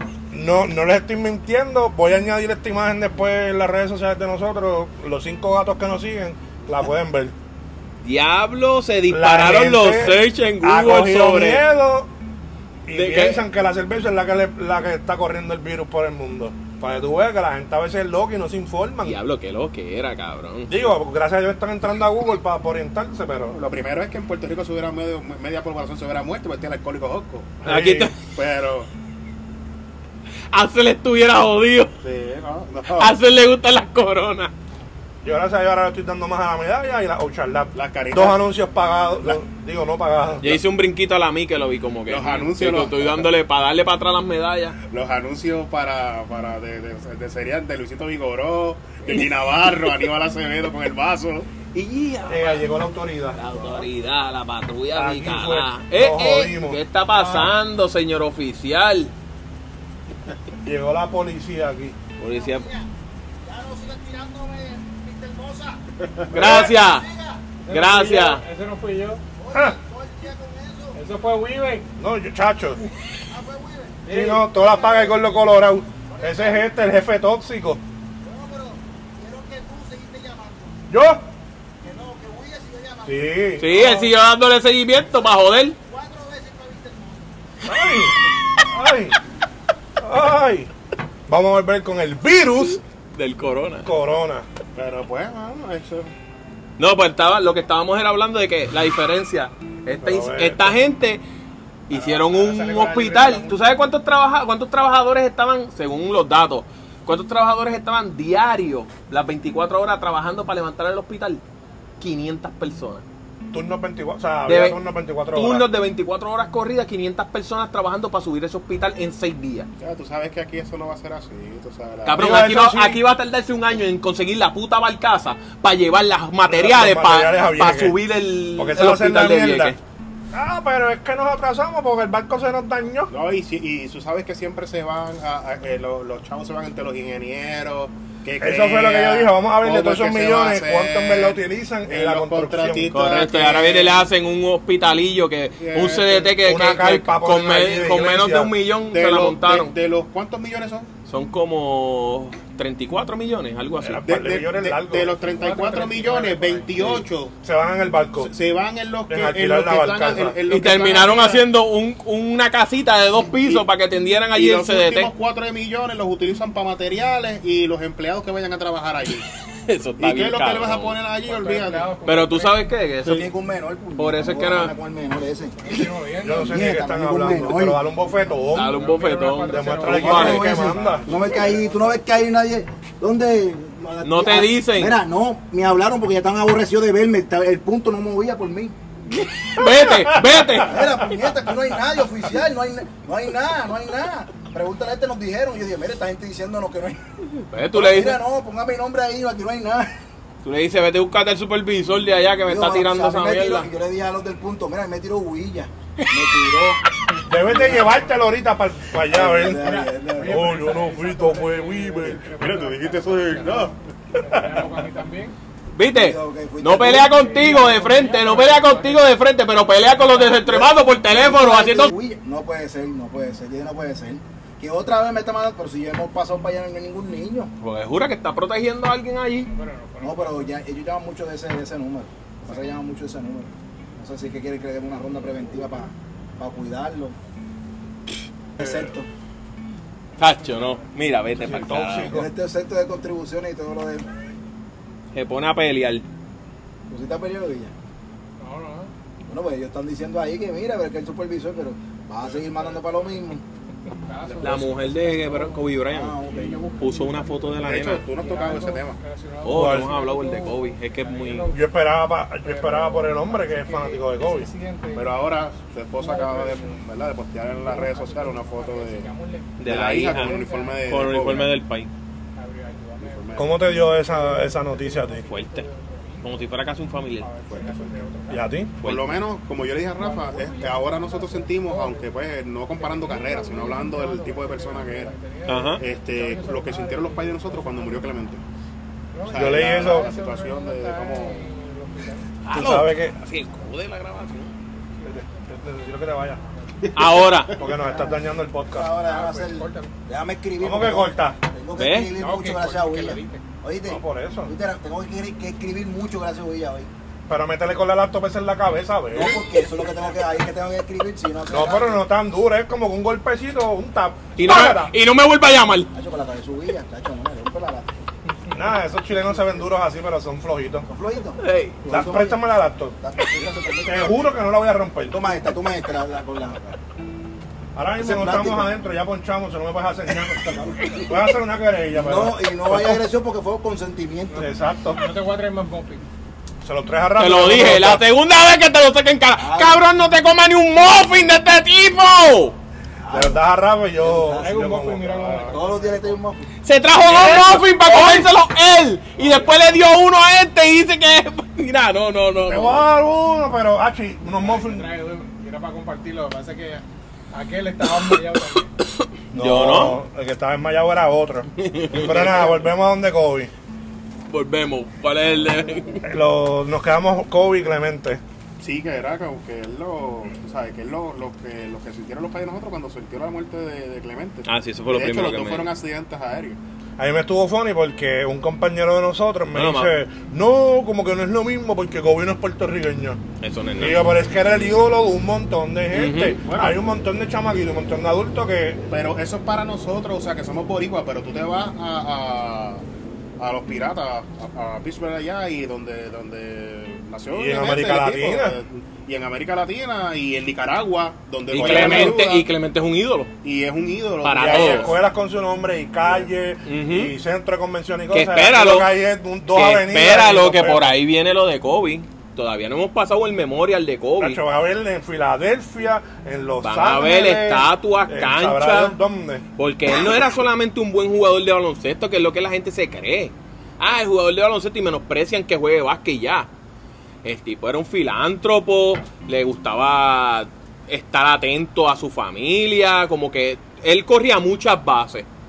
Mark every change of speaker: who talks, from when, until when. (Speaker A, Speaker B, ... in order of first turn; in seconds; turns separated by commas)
Speaker A: 0.3-7.3, Speaker B: 8.0-11.7, Speaker A: 9.1-12.1, Speaker A: 12.9-19.2, Speaker B: 12.9-13.4, Speaker B: 19.0-20.8, Speaker A: 20.7-23.6, Speaker C: 23.5-27.6, Speaker A: 27.6-28.1, Speaker B: 27.6-28.1, Speaker C: 28.2-28.9, Speaker B: 30.5-31.9, Speaker C: 32.0-33.1, Speaker B: 33.0-34.5, Speaker A: 35.2-40.6, Speaker C: 37.7-38.5, Speaker B: 40.4-44.8, Speaker C: 42.1-43.3, Speaker C: 44.9-51.5, Speaker B: 51.7-52.7, Speaker A: 52.3-53.4, Speaker B: 53.3-59.1, Speaker A: 55.0-57.5, Speaker A: 60.6-62.0, Speaker B: 62.2-62.7, Speaker D: 62.2-62.9, Speaker D: 63.4-65.8, Speaker B: 66.3-67.1, Speaker A: 66.3-66.8, Speaker D: 66.3-67.6, Speaker E: 67.7-69.2, Speaker B: 67.7-68.4, Speaker D: 69.4-71.0, Speaker E: 71.0-71.9, Speaker A: 72.0-72.8, Speaker D: 73.3-76.7, Speaker A: 74.1-77.8, Speaker E: 74.1-74.4, Speaker D: 78.2-80.8, Speaker A: 80.9-81.2, Speaker D: 81.8-83.6, Speaker A: 83.1-84.1, Speaker B: 83.6-85.8, Speaker D: 85.7-87.3, Speaker A: 87.6-89.2, Speaker A: 90.0-90.7, Speaker A: 91.3-92.8, Speaker B: 93.1-93.9, Speaker A: 93.8-94.5, Speaker C: 94.8-96.1, Speaker B: 96.8-101.2, Speaker A: 100.0-100.8, Speaker B: 101.9-111.4, Speaker E: 101.9-103.5, Speaker B: 112.0-113.0, Speaker A: 113.5-115.7, Speaker B: 114.5-114.8, Speaker B: 115.3-119.7, Speaker C: 119.8-122.4, Speaker B: 122.0-129.8, Speaker A: 122.2-123.0, Speaker A: 126.5-128.0, Speaker A: 128.6-129.8, Speaker A: 130.3-133.1, Speaker C: 133.1-144.1, Speaker A: 138.4-143.0, Speaker B: 142.9-149.7, Speaker C: 145.6-146.3, Speaker A: 146.4-148.5, Speaker C: 148.9-150.9, Speaker B: 151.1-154.0, Speaker A: 153.8-155.1, Speaker C: 154.0-157.3, Speaker E: 155.2-157.0, Speaker A: 156.8-158.3, Speaker C: 158.2-161.5, Speaker A: 159.1-160.4, Speaker B: 160.5-165.1, Speaker C: 163.3-163.7, Speaker C: 164.3-169.3, Speaker B: 169.7-171.0, Speaker C: 170.0-171.9, Speaker E: 171.3-172.7, Speaker B: 172.1-173.3, Speaker D: 173.0-175.6, Speaker B: 174.0-174.7, Speaker E: 175.6-176.6, Speaker A: 176.2-178.8, Speaker D: 176.3-177.8, Speaker B: 178.5-180.5, Speaker E: 178.5-181.5, Speaker A: 179.5-181.1, Speaker D: 179.9-188.8, Speaker B: 184.0-185.0, Speaker B: 189.1-190.8, Speaker A: 189.6-190.6, Speaker D: 190.6-197.0, Speaker B: 197.4-198.2, Speaker D: 197.7-199.9, Speaker B: 200.4-203.7, Speaker D: 202.5-206.8, Speaker A: 207.3-212.3, Speaker D: 207.4-208.1, Speaker D: 209.1-210.5, Speaker E: 209.6-215.3, Speaker C: 212.4-213.8, Speaker B: 215.7-221.9, Speaker D: 215.9-217.5, Speaker E: 217.1-219.1, Speaker D: 219.9-227.5, Speaker B: 227.6-229.5, Speaker E: 229.5-230.6, Speaker D: 230.0-237.2, Speaker D: 238.6-239.1, Speaker A: 238.6-238.9, Speaker B: 240.2-242.1, Speaker A: 241.3-242.3, Speaker D: 242.1-244.2, Speaker B: 245.1-246.1, Speaker D: 246.9-247.7, Speaker E: 248.4-248.9, Speaker D: 249.3-253.4, Speaker E: 252.3-252.8, Speaker E: 253.9-261.7, Speaker B: 254.4-256.2, Speaker D: 255.9-256.8, Speaker B: 256.8-258.1, Speaker C: 257.6-259.0, Speaker B: 259.4-261.5, Speaker A: 259.5-259.9, Speaker A: 261.5-264.5, Speaker E: 262.4-265.1, Speaker C: 264.9-269.1, Speaker E: 266.0-266.9, Speaker E: 267.5-271.4, Speaker B: 269.6-271.9, Speaker C: 269.6-271.5, Speaker E: 272.4-276.6, Speaker C: 273.0-273.7, Speaker A: 273.4-275.3, Speaker B: 275.3-275.7, Speaker B: 276.2-277.3, Speaker E: 277.2-278.5, Speaker C: 277.5-278.0, Speaker A: 278.3-278.7, Speaker B: 278.8-279.2, Speaker C: 278.8-285.2, Speaker E: 280.0-282.1, Speaker E: 282.8-288.1, Speaker B: 285.5-285.8, Speaker C: 285.8-288.4, Speaker E: 289.1-292.3, Speaker C: 289.2-291.5, Speaker A: 289.3-290.1, Speaker B: 292.4-294.5, Speaker A: 292.5-293.2, Speaker A: 295.0-296.4, Speaker C: 296.8-297.6, Speaker B: 296.9-297.6, Speaker A: 297.6-298.9, Speaker D: 297.7-306.9, Speaker E: 299.0-299.9, Speaker A: 300.6-301.4, Speaker B: 301.8-302.1, Speaker E: 302.1-303.4, Speaker A: 303.9-304.5, Speaker A: 307.3-309.4, Speaker D: 309.1-312.0, Speaker A: 311.5-314.9, Speaker B: 314.4-315.9, Speaker D: 315.9-318.0, Speaker A: 318.5-320.9, Speaker D: 320.9-322.4, Speaker B: 321.4-321.8, Speaker A: 321.9-323.0, Speaker D: 323.0-324.2, Speaker A: 323.9-325.4, Speaker D: 325.1-326.8, Speaker A: 327.8-333.0, Speaker D: 328.0-328.8, Speaker D: 330.1-331.1, Speaker D: 331.9-334.5, Speaker E: 334.3-336.0, Speaker A: 334.3-335.0, Speaker A: 336.6-338.1, Speaker B: 337.2-342.6, Speaker D: 339.4-339.8, Speaker D: 343.1-343.4, Speaker A: 343.1-345.5, Speaker D: 344.0-344.8, Speaker E: 344.4-346.2, Speaker D: 345.3-346.5, Speaker B: 346.6-352.8, Speaker A: 347.1-347.4, Speaker E: 347.2-348.0, Speaker A: 352.5-354.9, Speaker E: 354.4-358.7, Speaker B: 359.0-360.0, Speaker A: 359.3-363.5, Speaker B: 361.6-362.5, Speaker B: 364.3-366.1, Speaker A: 366.0-368.2, Speaker C: 368.6-376.6, Speaker B: 374.5-375.7, Speaker A: 377.0-383.2, Speaker B: 379.6-379.9, Speaker B: 383.4-384.1, Speaker A: 383.8-388.8, Speaker B: 385.9-386.4, Speaker C: 386.4-386.8, Speaker C: 388.9-392.8, Speaker C: 393.4-402.5, Speaker A: 397.3-398.6, Speaker B: 401.5-403.3, Speaker A: 401.5-402.2, Speaker C: 403.4-405.0, Speaker B: 404.2-405.0, Speaker A: 404.4-411.0, Speaker B: 406.6-407.1, Speaker B: 408.1-408.9, Speaker B: 409.5-414.4, Speaker A: 414.2-419.4, Speaker B: 416.6-419.0, Speaker B: 419.6-426.5, Speaker B: 427.2-435.3